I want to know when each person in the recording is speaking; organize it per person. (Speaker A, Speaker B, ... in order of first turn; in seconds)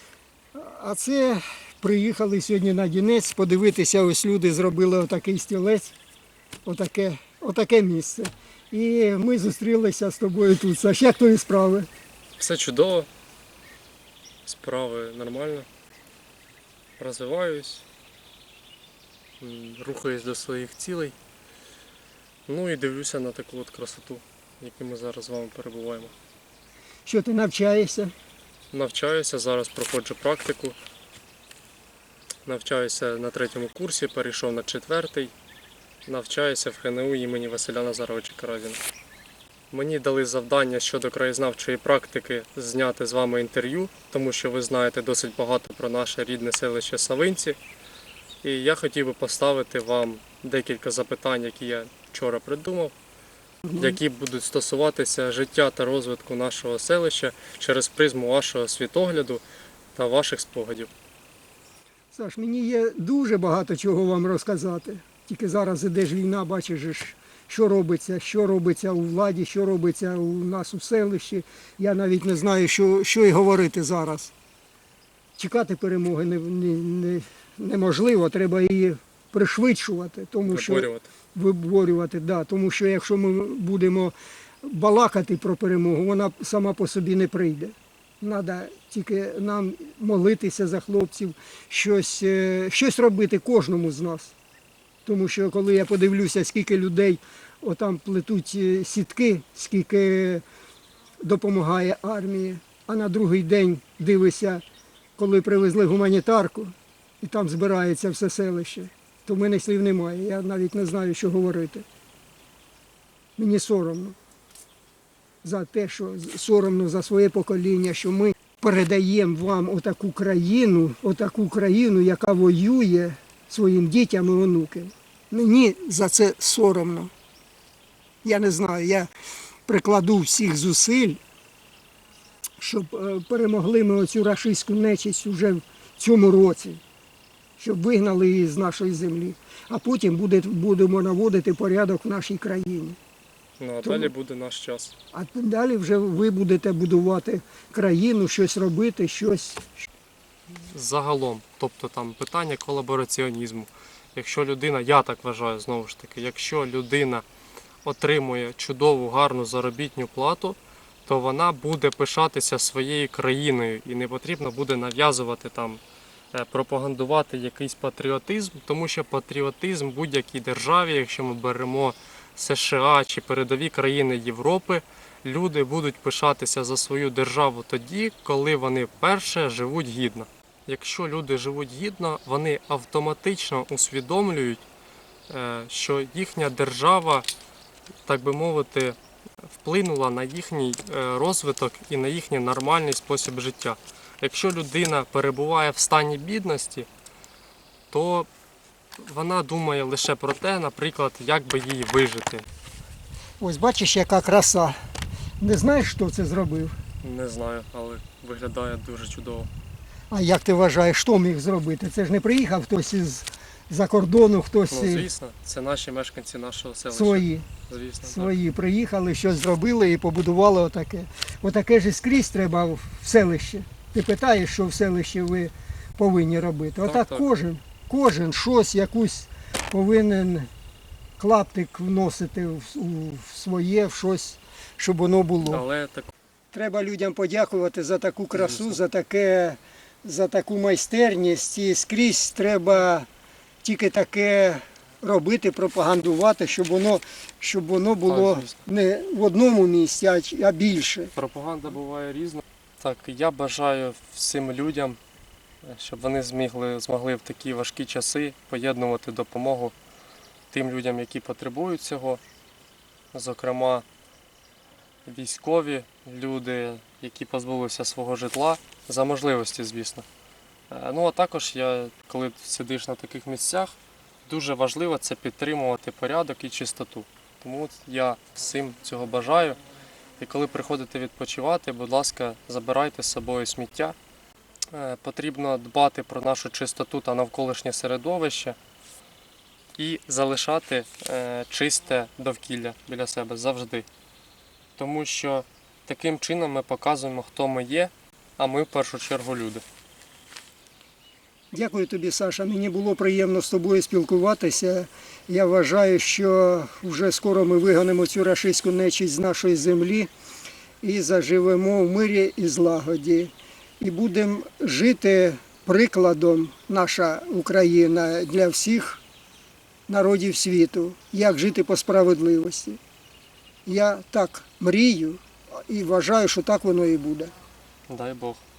Speaker A: 0.5-5.9, 6.6-11.9, 27.0-28.1, 53.6-54.0, 62.1-74.3, 75.4-94.3, 95.0-100.4, 101.2-104.6, 105.2-111.8, 113.4-114.2, 115.4-127.1, 128.2-129.1, 129.7-131.2, 132.6-136.8, 137.6-143.0, 143.8-144.1, 145.1-149.9, 203.4-204.8, 205.4-206.8, 210.1-215.1, 216.9-217.5, 218.0-230.5, 231.2-235.6, 236.5-243.1, 243.6-251.1, 301.5-310.1, 310.8-319.0, 319.9-322.8, 323.6-327.3
Speaker B: 12.4-13.1, 14.4-15.7, 17.0-17.8, 19.4-21.1, 22.5-26.1, 28.7-30.8, 32.5-35.3, 36.0-38.8, 39.7-47.6, 48.4-52.9, 53.8-59.4, 59.9-60.9, 80.5-81.1, 143.6-144.9, 150.6-157.2, 157.8-165.8, 166.3-184.6, 185.3-187.3, 188.1-189.0, 189.5-196.9, 197.9-198.3, 199.0-202.4, 207.0-209.5, 214.7-218.3, 226.8-227.2, 235.4-236.1, 238.3-238.8, 248.1-248.5, 251.2-255.0, 255.6-259.7, 260.5-262.2, 263.1-263.8, 265.1-270.1, 270.7-273.8, 274.3-279.6, 280.2-284.0, 284.7-288.6, 289.8-293.9, 294.8-299.6, 327.9-328.4